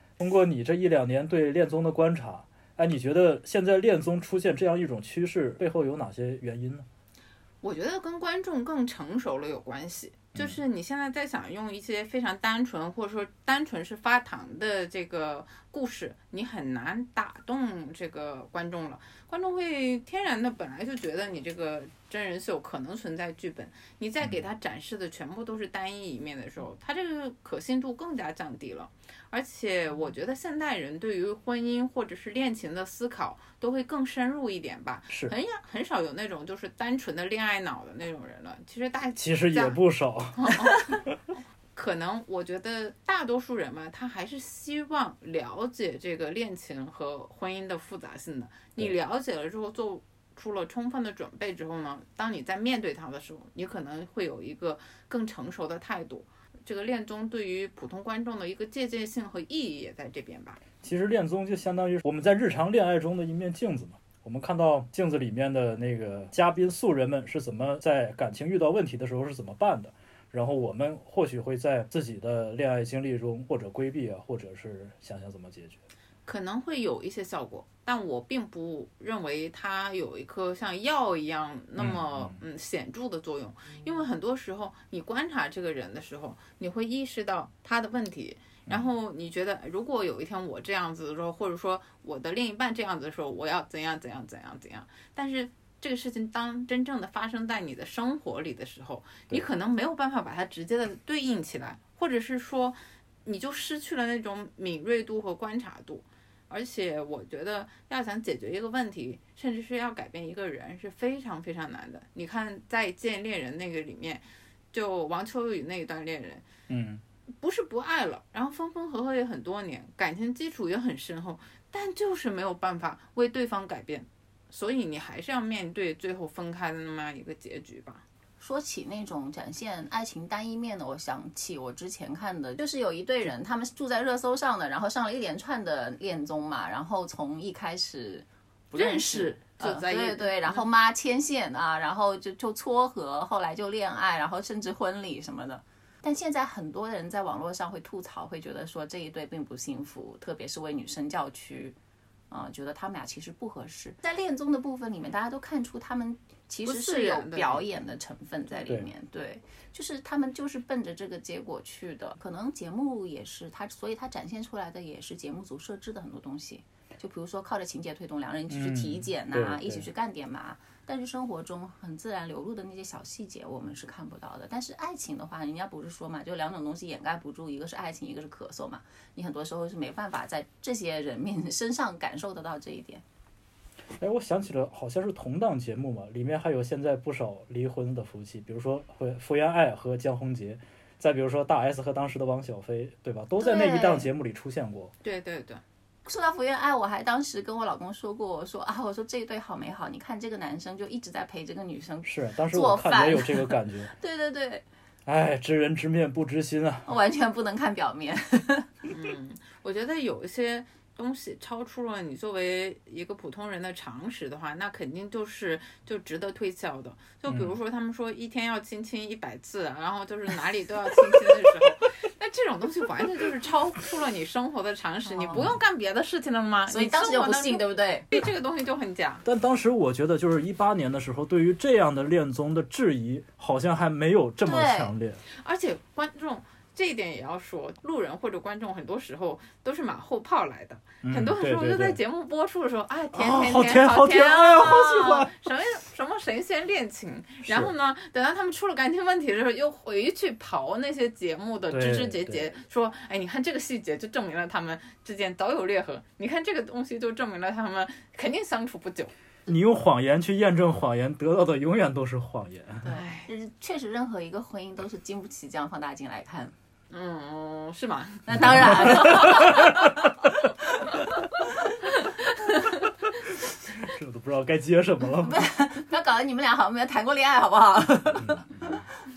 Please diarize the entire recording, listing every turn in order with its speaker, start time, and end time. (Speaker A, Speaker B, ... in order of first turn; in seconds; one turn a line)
Speaker A: 0.2-6.8
Speaker B: 7.6-39.8
Speaker A: 39.1-41.1
Speaker B: 40.4-40.9
Speaker B: 41.8-60.6
Speaker A: 60.8-75.8
Speaker B: 76.2-116.4
Speaker A: 81.8-82.4
Speaker A: 116.7-117.0
Speaker B: 117.4-128.0
Speaker C: 128.4-151.8
Speaker B: 138.7-140.7
Speaker C: 152.3-183.0
Speaker B: 156.6-157.6
Speaker A: 168.5-169.8
Speaker A: 184.0-194.9
Speaker C: 193.4-194.1
Speaker B: 195.0-195.6
Speaker C: 196.1-204.6
Speaker A: 202.0-203.9
Speaker A: 205.1-206.9
Speaker C: 206.8-208.9
Speaker B: 208.9-229.2
Speaker A: 217.3-217.6
Speaker C: 225.0-225.4
Speaker C: 226.7-228.1
Speaker A: 229.2-235.2
Speaker C: 234.4-234.9
Speaker B: 235.3-259.1
Speaker A: 241.0-242.0
Speaker A: 243.1-245.5
Speaker A: 247.4-247.7
Speaker A: 251.7-252.5
Speaker A: 259.5-262.9
Speaker C: 262.8-266.5
Speaker B: 262.9-263.3
Speaker B: 266.9-269.2
Speaker C: 268.3-270.1
Speaker A: 268.4-269.7
Speaker C: 271.4-271.7
Speaker A: 273.8-275.4
Speaker C: 275.2-278.7
Speaker A: 278.1-278.8